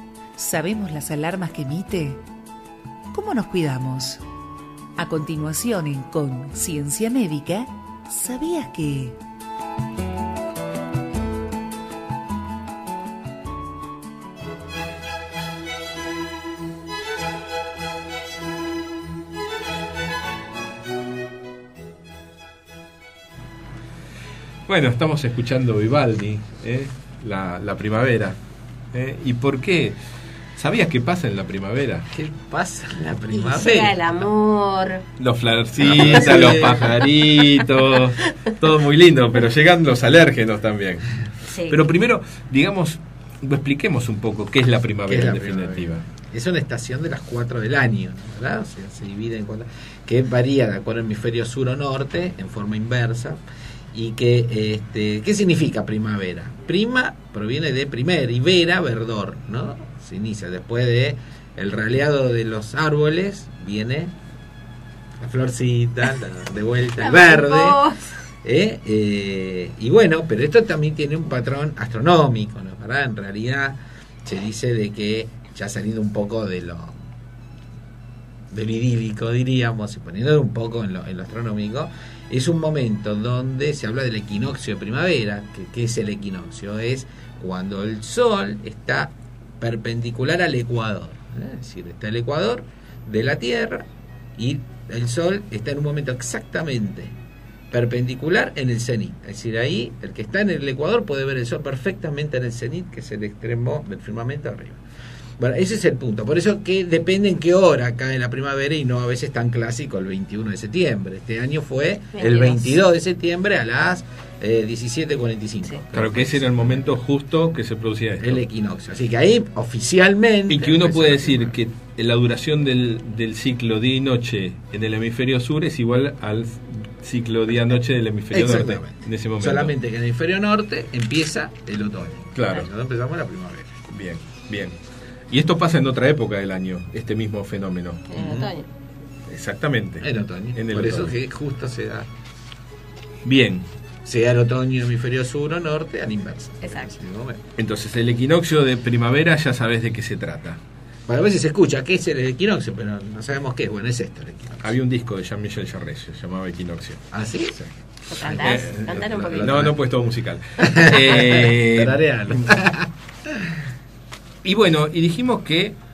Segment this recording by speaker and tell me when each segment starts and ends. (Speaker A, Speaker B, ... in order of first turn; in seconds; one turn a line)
Speaker A: 0.4-2.2
Speaker A: 3.1-4.2
Speaker A: 5.0-9.2
Speaker B: 24.7-28.4
Speaker B: 28.9-30.0
Speaker B: 30.6-32.1
Speaker C: 32.3-33.9
Speaker D: 33.3-35.0
Speaker B: 35.2-46.1
Speaker D: 35.8-36.9
Speaker C: 35.9-36.8
Speaker D: 41.5-41.8
Speaker C: 45.1-53.4
Speaker C: 53.9-64.1
Speaker C: 65.2-67.8
Speaker D: 67.0-68.1
Speaker C: 68.4-77.0
Speaker C: 78.5-97.1
Speaker C: 97.7-104.8
Speaker C: 105.4-116.4
Speaker D: 112.1-112.8
Speaker B: 115.9-118.4
Speaker C: 118.2-121.5
Speaker B: 120.5-129.7
Speaker C: 128.3-133.8
Speaker B: 132.3-132.7
Speaker B: 133.9-134.8
Speaker B: 135.3-138.1
Speaker D: 138.1-138.7
Speaker C: 138.2-138.5
Speaker B: 139.3-141.2
Speaker C: 140.0-142.1
Speaker B: 143.2-143.7
Speaker C: 144.1-147.4
Speaker D: 146.6-146.9
Speaker B: 147.6-150.6
Speaker C: 151.1-154.7
Speaker B: 154.6-157.1
Speaker C: 157.1-157.7
Speaker D: 158.1-159.7
Speaker B: 158.2-162.5
Speaker C: 158.3-158.7
Speaker C: 160.6-161.1
Speaker C: 161.8-162.9
Speaker B: 164.4-165.8